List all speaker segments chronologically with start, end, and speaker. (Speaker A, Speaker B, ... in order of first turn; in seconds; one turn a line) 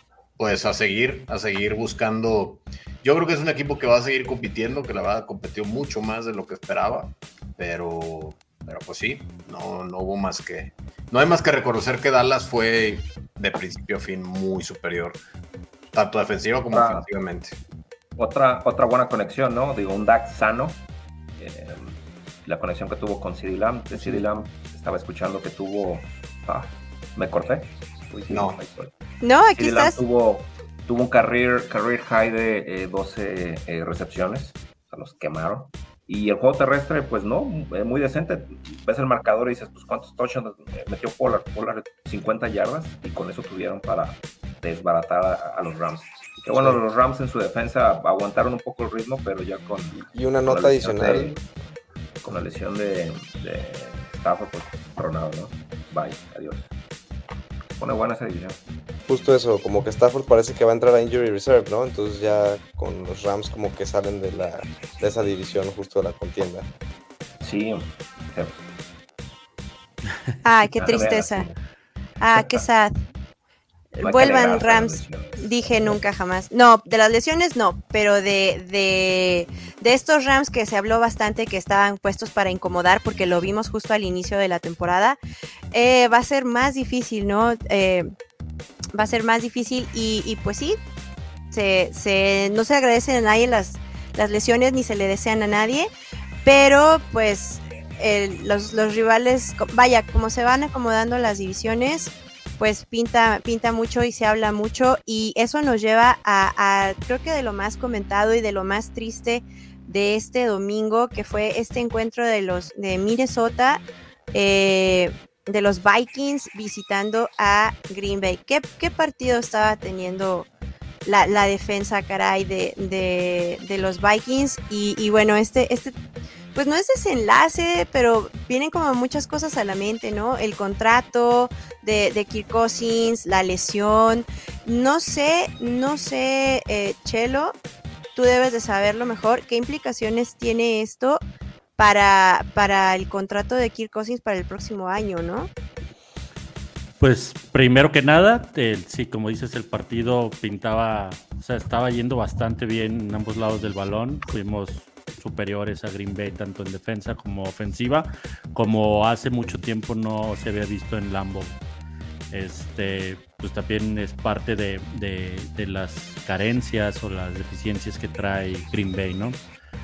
Speaker A: 0.4-15.2
Speaker A: 15.9-17.6
Speaker B: 16.7-17.1
Speaker B: 18.1-20.8
Speaker B: 21.4-28.9
Speaker A: 28.3-28.6
Speaker C: 29.2-30.0
Speaker B: 29.5-51.4
Speaker D: 46.5-46.8
Speaker D: 49.9-51.4
Speaker B: 52.2-56.7
Speaker B: 57.8-58.6
Speaker D: 59.1-66.7
Speaker B: 67.4-68.5
Speaker C: 70.4-71.5
Speaker B: 70.8-71.6
Speaker C: 72.2-72.9
Speaker B: 72.3-72.6
Speaker C: 73.9-85.2
Speaker B: 74.0-76.0
Speaker C: 85.7-88.1
Speaker C: 88.9-90.8
Speaker C: 91.5-95.9
Speaker C: 96.4-120.5
Speaker C: 121.0-125.9
Speaker C: 126.5-137.5
Speaker C: 138.1-141.2
Speaker C: 141.8-145.5
Speaker E: 147.0-161.6
Speaker E: 162.3-169.4